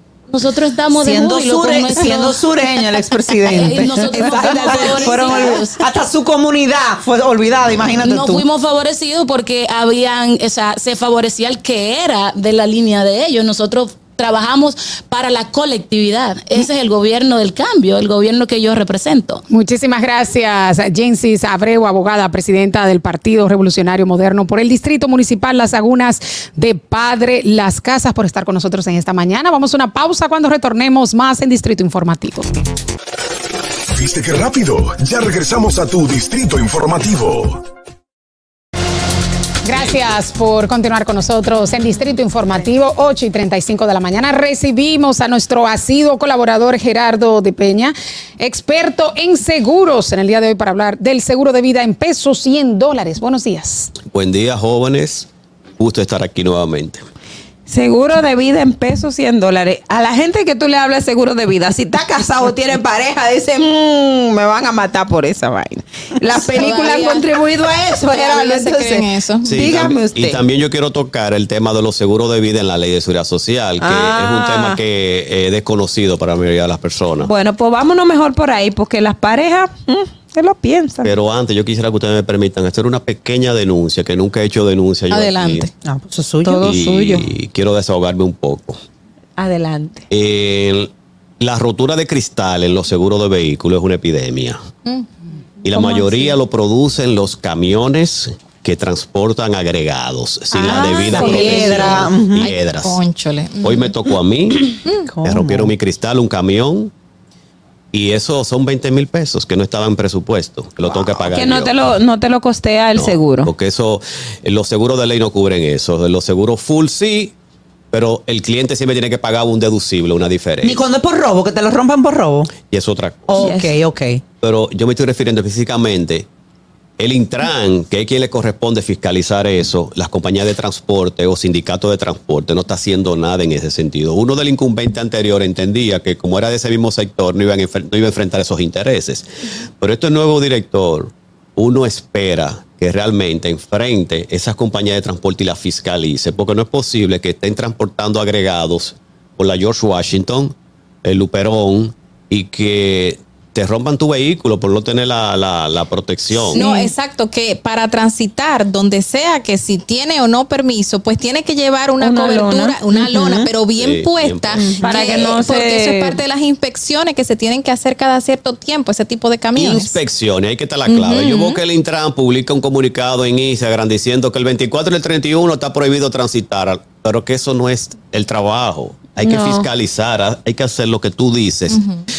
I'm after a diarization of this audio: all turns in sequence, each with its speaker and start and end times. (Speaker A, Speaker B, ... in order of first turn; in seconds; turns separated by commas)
Speaker A: 0.3-2.5, Speaker B: 0.9-8.4, Speaker A: 3.5-5.8, Speaker C: 3.6-5.6, Speaker A: 8.0-19.4, Speaker D: 19.5-32.5, Speaker E: 34.0-37.6, Speaker D: 39.6-53.9, Speaker F: 54.1-55.3, Speaker F: 55.8-57.0, Speaker C: 57.7-70.4, Speaker G: 66.4-67.3, Speaker G: 68.1-69.7, Speaker F: 69.4-77.3, Speaker C: 73.8-74.8, Speaker C: 77.2-81.1, Speaker F: 81.0-85.7, Speaker G: 85.1-85.7, Speaker B: 85.8-86.8, Speaker C: 86.5-87.3, Speaker F: 86.7-88.8, Speaker C: 89.4-90.1, Speaker F: 90.1-94.6, Speaker F: 95.6-103.0, Speaker G: 95.8-96.2, Speaker B: 100.6-102.5, Speaker C: 100.6-102.0, Speaker G: 101.1-103.9, Speaker F: 103.6-104.7, Speaker B: 105.1-105.7, Speaker F: 105.2-106.9, Speaker F: 107.9-111.8, Speaker C: 111.3-113.5, Speaker F: 113.0-117.3, Speaker F: 117.9-120.8, Speaker B: 120.6-122.5, Speaker F: 122.7-123.3, Speaker B: 123.3-124.2, Speaker C: 123.4-123.7, Speaker F: 124.4-126.3, Speaker F: 127.0-139.3, Speaker F: 139.8-156.7, Speaker C: 156.5-156.9, Speaker G: 156.5-170.0, Speaker C: 162.0-162.8, Speaker B: 163.0-163.5, Speaker F: 163.8-164.8, Speaker C: 164.8-166.2, Speaker F: 169.6-181.8, Speaker G: 170.9-171.6, Speaker C: 179.2-179.7, Speaker G: 181.7-182.0